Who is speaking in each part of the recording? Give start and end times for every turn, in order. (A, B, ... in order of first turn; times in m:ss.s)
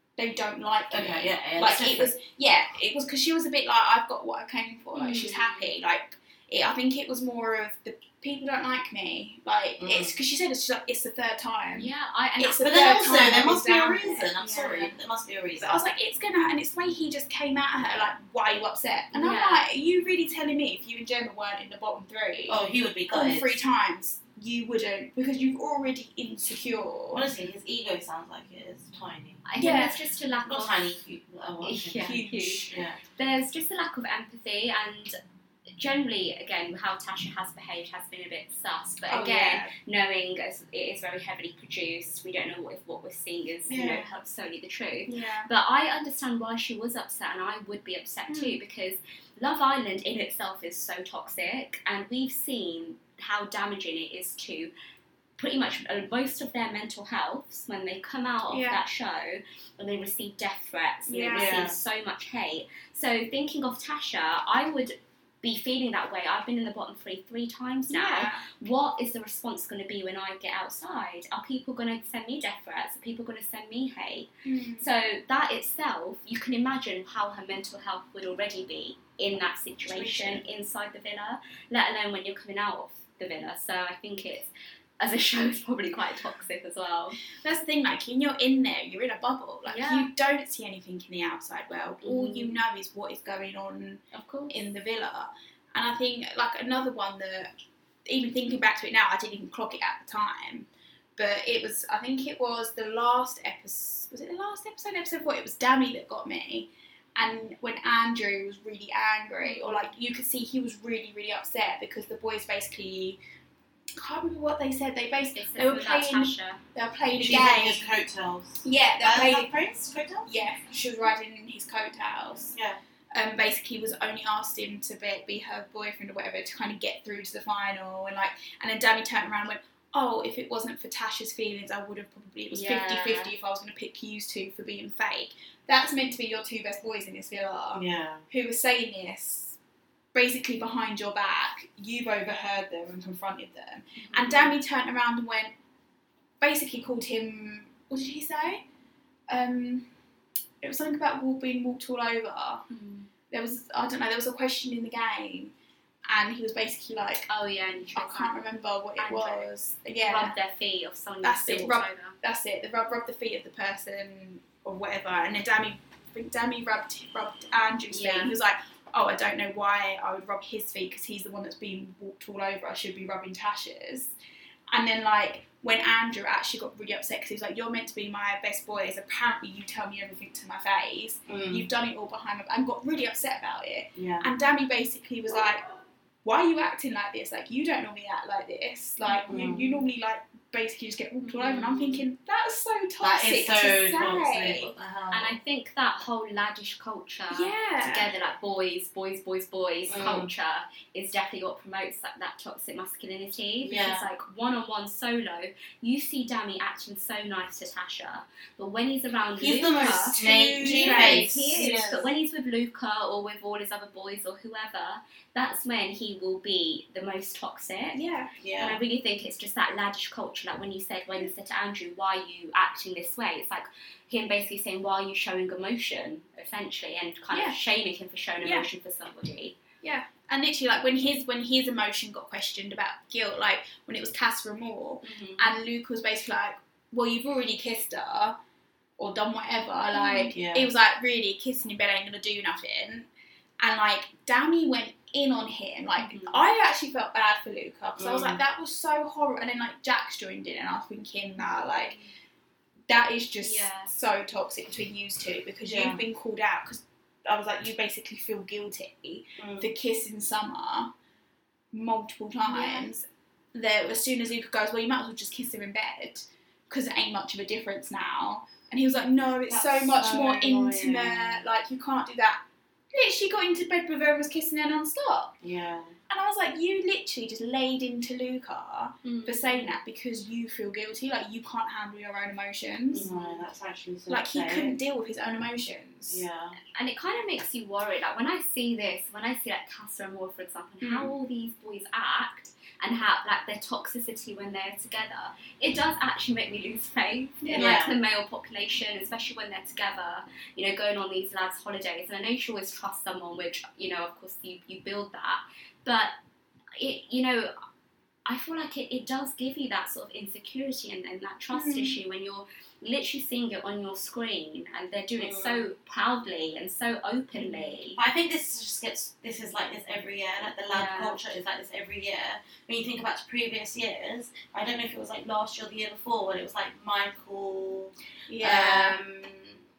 0:00.2-0:14.3 A
0:00.9-0:02.1 B
0:04.9-0:05.7 C
0:09.8-0:10.1 B
0:11.7-0:13.2 C
0:12.6-0:15.8 B
0:14.4-0:15.0 C
0:15.6-0:27.2 A
0:19.1-0:19.7 C
0:22.5-0:23.6 B
0:27.1-0:29.4 B
0:29.4-0:31.0 C
0:29.6-0:30.0 A
0:30.4-0:33.0 B
0:31.6-0:35.2 C
0:32.0-0:32.7 A
0:35.8-0:54.7 C
0:39.1-0:39.7 A
0:43.7-0:44.1 B
0:45.1-0:45.5 A
0:48.3-0:48.6 A
0:55.4-1:27.2 C
0:58.5-0:58.8 A
1:01.1-1:01.5 A
1:01.3-1:01.8 B
1:07.9-1:08.4 A
1:14.4-1:14.9 A
1:19.9-1:20.4 A
1:20.0-1:20.4 B
1:27.4-1:37.5 A
1:29.6-1:30.1 C
1:32.0-1:32.6 C
1:34.1-1:34.6 C
1:38.0-1:53.2 A
1:49.4-1:50.0 C
1:54.0-1:57.9 A
1:55.3-1:56.6 C
1:57.2-2:00.3 B
1:58.6-1:59.5 A
2:00.2-2:02.6 A
2:03.1-2:19.6 A
2:12.5-2:13.3 C
2:17.7-2:18.2 B
2:20.1-2:25.5 A
2:24.0-2:24.6 C
2:26.4-2:28.6 A
2:29.3-2:29.9 A
2:30.6-2:32.6 A
2:32.7-2:33.1 C
2:33.3-2:35.5 A
2:36.1-2:37.3 A
2:37.3-2:38.4 C
2:37.9-2:40.3 A
2:39.0-2:42.2 C
2:41.2-2:54.1 A
2:47.9-2:48.3 C
2:54.7-3:05.6 A
3:01.3-3:01.7 B
3:03.9-3:04.2 B
3:06.2-3:14.7 A
3:09.0-3:09.3 C
3:09.3-3:09.8 B
3:11.2-3:12.0 C
3:13.0-3:15.4 B
3:15.1-3:38.0 C
3:17.3-3:18.1 A
3:19.9-3:20.3 B
3:23.6-3:24.0 B
3:29.4-3:32.1 B
3:30.1-3:31.4 A
3:37.9-3:38.3 A
3:38.4-3:38.8 B
3:38.6-3:49.6 C
3:47.3-3:47.6 A
3:49.8-3:58.4 A
3:55.0-3:55.6 C
3:59.0-4:03.1 A
3:59.9-4:00.3 C
4:00.3-4:00.7 B
4:03.6-4:12.0 A
4:06.0-4:06.4 C
4:08.0-4:08.4 B
4:11.4-4:12.1 C
4:12.9-4:20.9 A
4:13.4-4:13.9 C
4:15.6-4:16.0 B
4:19.4-4:19.7 B
4:21.7-4:35.3 A
4:22.4-4:22.9 C
4:29.5-4:31.4 B
4:35.4-4:36.0 B
4:36.1-4:43.1 A
4:39.0-4:39.8 C
4:42.9-4:44.8 B
4:43.1-4:43.5 C
4:44.1-4:46.2 A
4:46.1-4:46.6 B
4:46.7-5:06.1 C
4:50.8-4:51.1 A
4:57.4-4:57.7 A
4:57.5-4:57.9 B
5:06.8-5:07.5 C
5:08.2-5:18.0 C
5:11.5-5:12.0 A
5:15.2-5:15.7 B
5:17.3-5:17.8 A
5:17.9-5:29.6 B
5:20.7-5:21.2 C
5:28.3-5:29.0 A